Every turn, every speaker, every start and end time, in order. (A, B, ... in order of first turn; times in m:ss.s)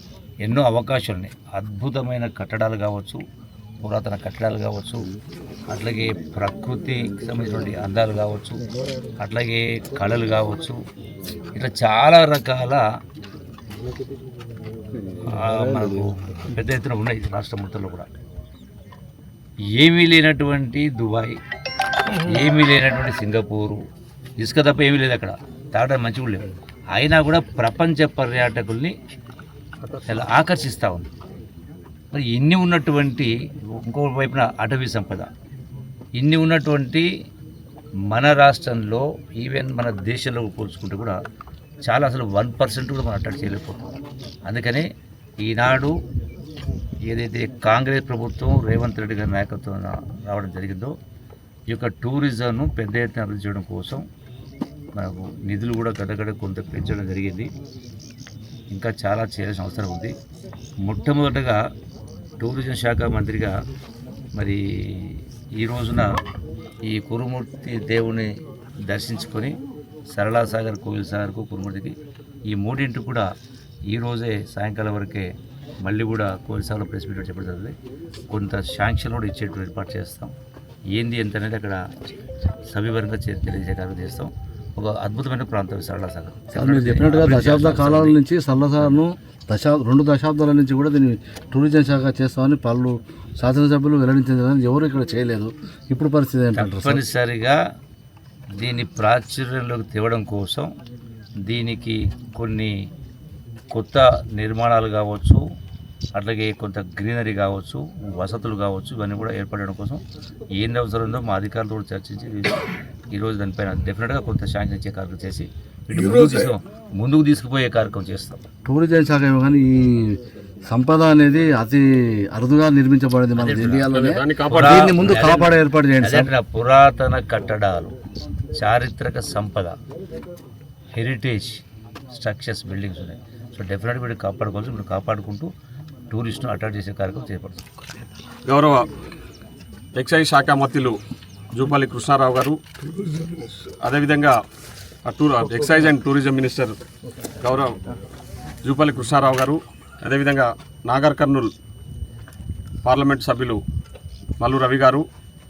0:00.4-0:03.2 A
0:03.8-0:05.0 A
0:05.7-0:08.6 A
0:09.2-0:10.8 A
0:11.5-0:12.8 A
0:15.3-0:18.1 A
0:19.8-0:21.3 A
0:22.2-0:23.8 A
0:24.4-0:28.9 A
0:30.0-0:31.1 A
0:32.1-0:35.3 A
0:36.2-0:37.1 A
0:38.1-0:41.2 A
0:41.8-0:43.9 A
0:44.5-0:44.9 A
0:45.4-0:45.9 A
0:47.1-0:50.9 A
0:51.7-0:54.0 A
0:54.9-0:57.5 A
0:58.7-1:00.1 A
1:00.8-1:01.6 A
1:02.4-1:03.5 A
1:04.3-1:06.1 A
1:06.9-1:08.3 A
1:08.9-1:09.5 A
1:10.1-1:12.0 A
1:12.5-1:13.2 A
1:13.9-1:15.3 A
1:15.8-1:17.7 A
1:18.3-1:20.3 A
1:20.9-1:21.8 A
1:22.7-1:28.2 A
1:26.5-1:37.0 B
1:36.6-1:37.6 A
1:38.6-1:40.7 A
1:41.4-1:42.7 A
1:43.7-1:45.4 A
1:46.1-1:50.0 A
1:50.6-1:52.6 A
1:53.1-1:58.4 A
1:58.6-2:00.2 B
2:00.7-2:06.3 B
2:03.4-2:03.9 A
2:03.9-2:05.2 C
2:04.5-2:07.9 A
2:08.6-2:09.8 A
2:10.9-2:15.5 A
2:16.1-2:17.6 A
2:18.4-2:18.9 C
2:19.9-2:21.0 C
2:21.5-2:22.6 C
2:23.8-2:24.4 C
2:25.0-2:26.8 C
2:27.4-2:27.8 C
2:28.6-2:31.5 C
2:32.8-2:33.6 C
2:34.4-2:35.1 C